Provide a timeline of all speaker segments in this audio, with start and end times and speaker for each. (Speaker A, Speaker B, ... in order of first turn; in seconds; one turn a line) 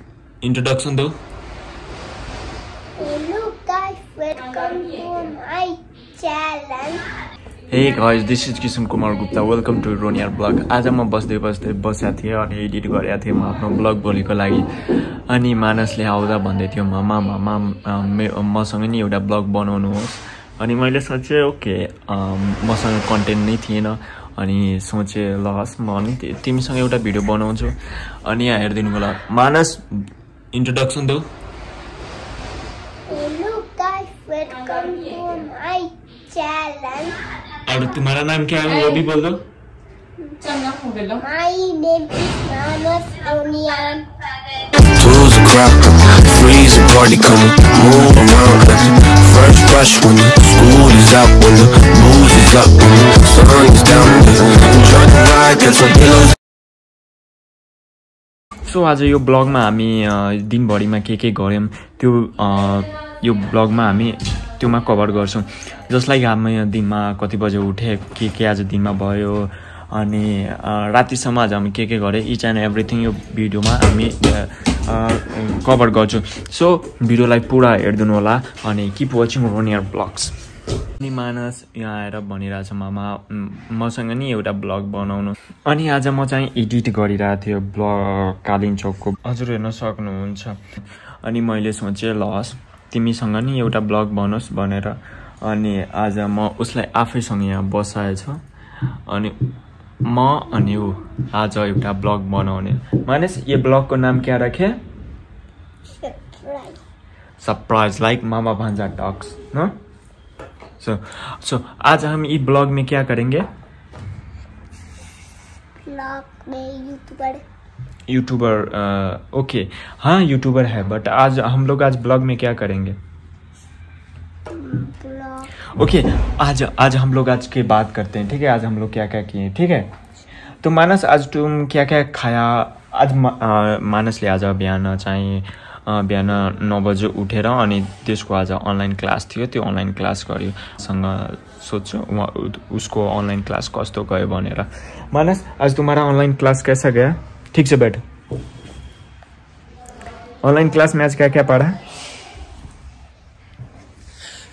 Speaker A: 0.4-1.1
Speaker B: 3.0-7.0
Speaker A: 7.7-29.8
Speaker A: 30.5-31.2
Speaker B: 33.1-37.2
Speaker A: 37.6-39.4
Speaker B: 40.2-44.1
Speaker C: 44.8-56.3
Speaker A: 58.6-80.3
Speaker A: 81.0-90.6
Speaker A: 91.2-98.4
Speaker A: 99.1-99.4
Speaker A: 100.0-104.8
Speaker B: 106.0-106.8
Speaker A: 107.4-109.7
Speaker A: 110.8-113.5
Speaker B: 115.8-117.4
Speaker A: 118.1-123.0
Speaker B: 124.5-125.5
Speaker A: 125.8-129.9
Speaker A: 130.6-148.0
Speaker A: 150.4-151.8